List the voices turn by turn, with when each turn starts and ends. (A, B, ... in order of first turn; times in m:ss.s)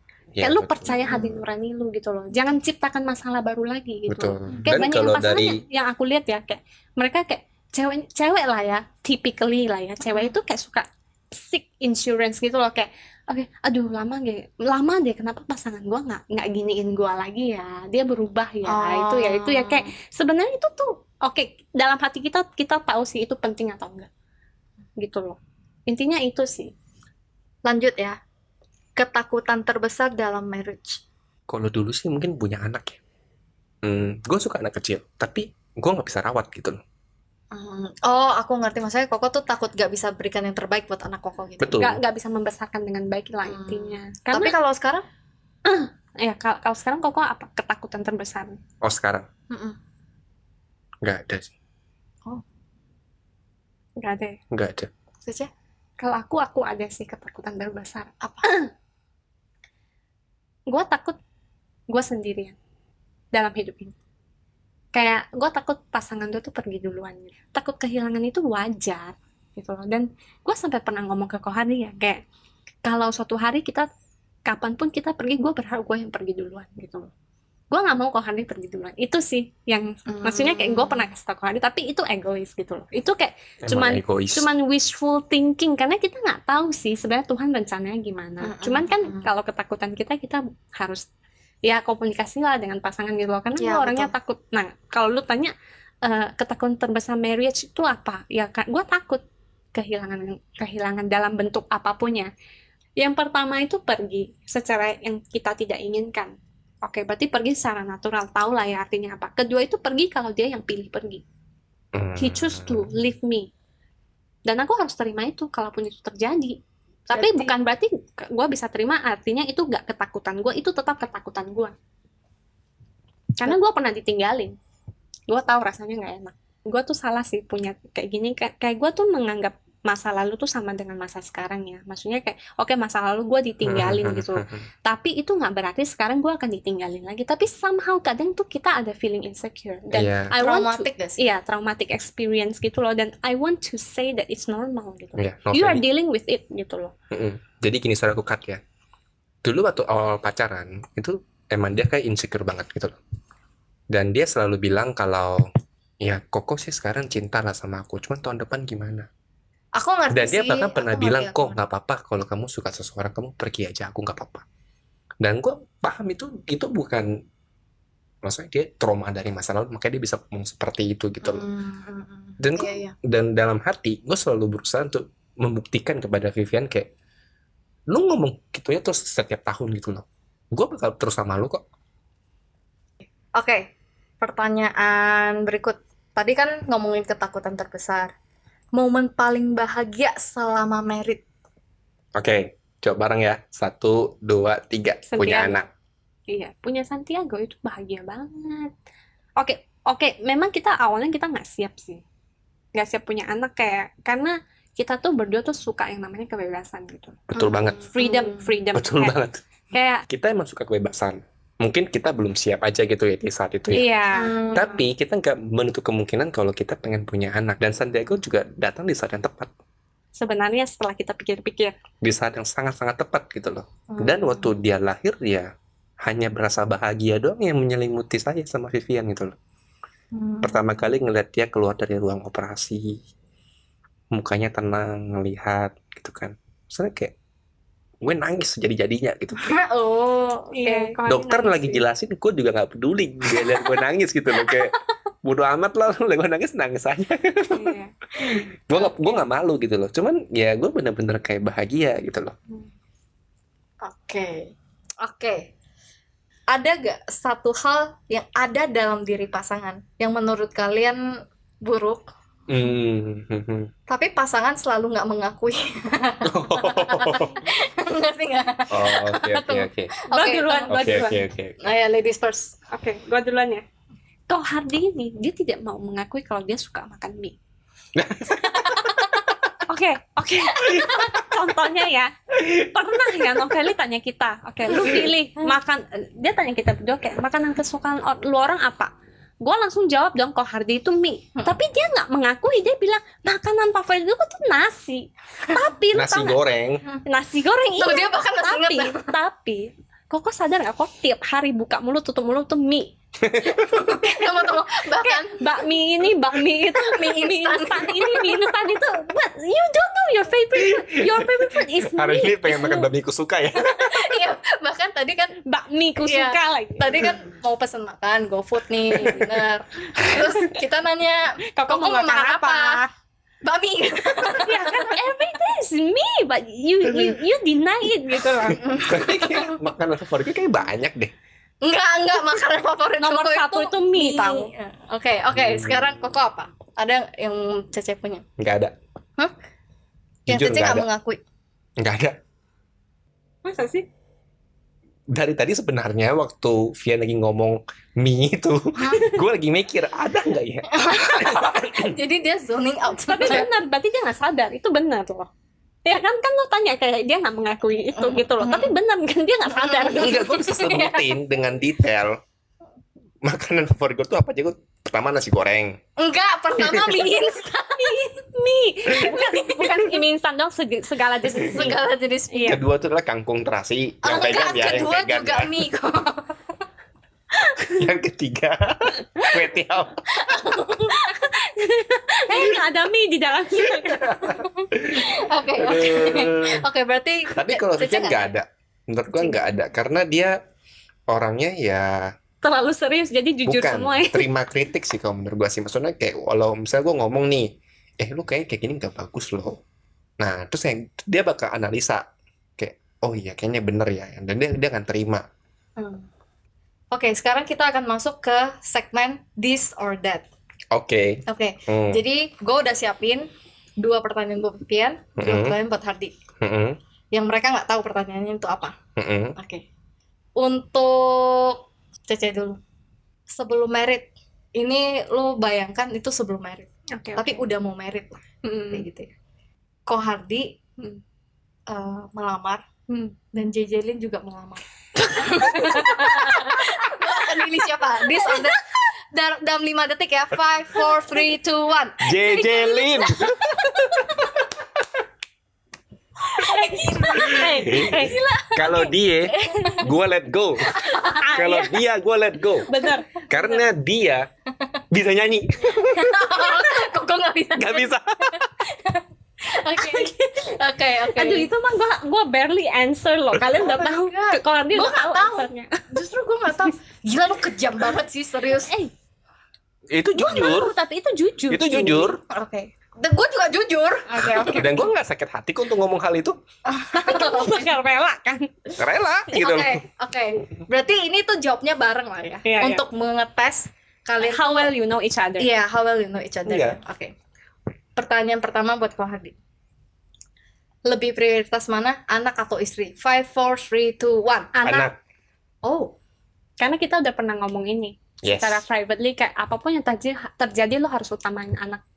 0:00.3-0:01.3 A
0:00.4-0:24.1 B
0:04.1-0:05.6 A
0:10.0-0:10.3 C
0:18.6-0:19.9 C
0:25.0-0:26.7 B
0:27.6-0:28.2 C
0:29.0-0:31.0 C
0:31.5-0:33.0 A
0:33.8-0:36.8 A
0:37.5-0:41.8 C
0:41.6-0:42.0 A
0:41.7-0:44.5 B
0:43.4-0:45.0 C
0:45.6-0:48.6 B
0:48.8-0:49.3 A
0:49.5-0:49.8 C
0:51.0-0:51.5 A
0:54.0-0:54.4 B
0:54.5-0:54.9 A
0:55.2-0:55.5 C
0:56.0-0:58.7 B
0:58.2-0:58.4 C
1:00.7-1:01.2 B
1:01.9-1:02.5 B
1:03.3-1:03.9 B
1:04.9-1:12.2 B
1:12.8-1:13.9 B
1:14.4-1:17.1 B
1:17.7-1:31.0 B
1:20.1-1:21.1 C
1:23.6-1:24.5 A
1:28.4-1:29.3 C
1:31.6-1:39.2 B
1:33.6-1:34.1 C
1:39.7-1:42.3 B
1:43.0-1:51.2 B
1:51.9-1:52.9 A
1:52.2-1:53.5 B
1:54.4-2:01.7 B
1:57.1-1:57.5 C
2:03.4-2:04.6 B
2:05.3-2:26.9 B
2:13.6-2:14.6 A
2:19.9-2:20.3 A
2:20.3-2:21.2 C
2:25.2-2:25.8 A
2:27.1-2:28.6 A
2:29.4-2:33.0 A
2:33.9-2:35.5 A
2:36.0-2:39.1 A
2:39.7-2:41.6 C
2:40.1-2:44.4 A
2:45.2-2:47.2 A
2:48.2-2:51.4 A
2:51.2-2:52.9 C
2:52.4-2:56.9 A
2:57.9-3:01.6 A
3:03.3-3:03.7 C
3:04.2-3:08.1 C
3:08.7-3:11.2 C
3:12.2-3:15.6 A
3:15.0-3:15.6 B
3:16.3-3:18.7 B
3:19.4-3:22.0 B
3:22.7-3:27.2 B
3:27.3-3:27.9 A
3:27.3-3:28.5 C
3:27.9-3:29.2 B
3:28.7-3:29.4 A
3:29.7-3:30.0 B
3:30.1-3:33.9 A
3:33.7-3:34.4 B
3:34.1-3:34.8 C
3:34.5-3:39.5 A
3:40.1-3:41.8 B
3:42.0-3:45.5 A
3:43.9-3:44.5 C
3:46.0-3:49.3 A
3:50.1-3:50.8 C
3:50.4-3:53.0 A
3:54.1-3:57.1 A
3:58.0-3:59.4 A
3:59.4-4:01.0 C
4:00.5-4:01.8 B
4:01.1-4:12.3 A
4:03.3-4:03.8 C
4:04.4-4:04.8 C
4:07.5-4:07.9 B
4:13.8-4:15.5 C
4:16.5-4:21.1 C
4:21.6-4:22.1 C
4:22.5-4:23.7 A
4:23.9-4:31.1 C
4:26.2-4:27.5 A
4:28.7-4:29.9 A
4:30.1-4:31.2 B
4:30.7-4:31.6 A
4:31.6-4:32.6 C
4:32.7-4:33.6 B
4:34.3-4:37.4 B
4:37.9-4:38.9 A
4:38.4-4:39.3 C
4:39.7-4:56.4 B
4:40.6-4:41.1 C
4:55.9-4:56.8 A
4:57.0-5:02.9 B
4:57.8-4:59.1 C
5:03.2-5:03.9 A
5:03.7-5:05.6 C
5:03.9-5:04.4 B
5:05.0-5:12.9 B
5:06.6-5:08.6 C
5:10.5-5:14.0 A
5:13.5-5:15.4 C
5:15.4-5:17.1 B
5:16.0-5:22.8 C
5:19.0-5:19.3 A
5:20.0-5:20.5 B
5:21.5-5:22.9 B
5:23.4-5:25.0 C
5:24.4-5:28.7 B
5:28.5-5:29.6 C
5:28.7-5:31.1 A
5:31.6-5:38.2 C
5:33.0-5:34.5 B
5:35.3-5:36.0 A
5:38.4-5:38.7 A
5:40.2-5:41.2 C
5:40.3-5:40.8 A
5:41.8-5:42.2 A
5:43.4-5:43.8 B
5:45.1-5:52.0 A
5:48.8-5:49.1 C
5:50.7-5:53.5 C
5:53.0-5:55.3 B
5:55.8-6:00.9 B
5:58.0-5:58.7 C
5:59.5-6:01.1 C
5:59.9-6:02.2 A
6:03.2-6:05.8 A
6:06.0-6:08.1 C
6:06.6-6:07.0 A
6:07.8-6:11.8 B
6:09.0-6:10.0 C
6:11.4-6:12.6 C
6:12.3-6:12.6 B
6:12.5-6:15.5 A
6:14.0-6:16.3 C
6:17.7-6:20.0 A
6:20.2-6:21.3 C
6:21.0-6:24.2 B
6:23.7-6:26.6 A
6:24.3-6:28.3 C
6:27.3-6:30.4 A
6:31.1-6:32.1 A
6:32.4-6:34.3 B
6:33.4-6:39.6 A
6:40.2-6:42.0 A
6:42.6-6:45.2 A
6:45.8-6:46.1 C
6:46.9-6:50.2 C
6:50.7-6:52.0 A
6:51.3-6:53.3 C
6:53.8-6:56.1 C
6:55.2-6:55.6 A
6:56.4-6:56.8 A
6:57.1-6:58.7 C
6:59.0-6:59.4 A
6:59.4-6:59.6 C
7:00.4-7:02.6 C
7:03.3-7:09.1 C
7:06.9-7:07.4 B
7:08.4-7:08.8 B
7:09.9-7:10.6 C
7:11.7-7:12.6 C
7:12.9-7:13.1 B
7:13.3-7:24.4 C
7:15.2-7:18.6 B
7:22.0-7:24.4 A
7:26.3-7:28.9 C
7:26.3-7:29.8 B
7:27.2-7:32.7 A
7:29.4-7:29.9 C
7:30.7-7:31.3 C
7:30.7-7:31.8 B
7:32.6-7:33.5 B
7:32.7-7:33.4 C
7:33.3-7:34.3 A
7:34.9-7:36.8 A
7:35.8-7:41.5 C
7:37.6-7:38.5 A
7:39.8-7:40.1 B
7:41.1-7:45.8 B
7:43.5-7:48.7 C
7:48.6-7:48.9 B
7:49.9-7:50.7 A
7:50.2-7:52.1 B
7:51.5-7:52.2 A
7:52.3-7:54.8 C
7:54.1-7:54.9 B
7:54.5-7:56.4 A
7:56.6-7:57.8 C
7:56.9-7:58.8 B
7:58.8-7:59.8 A
7:59.3-8:04.7 C
8:02.4-8:02.8 B
8:04.2-8:05.5 B
8:05.4-8:07.1 C
8:06.5-8:06.8 A
8:08.0-8:09.3 C
8:10.8-8:14.5 C
8:14.5-8:14.9 B
8:14.6-8:14.9 A
8:15.6-8:15.9 C
8:16.6-8:21.8 B
8:18.2-8:18.6 A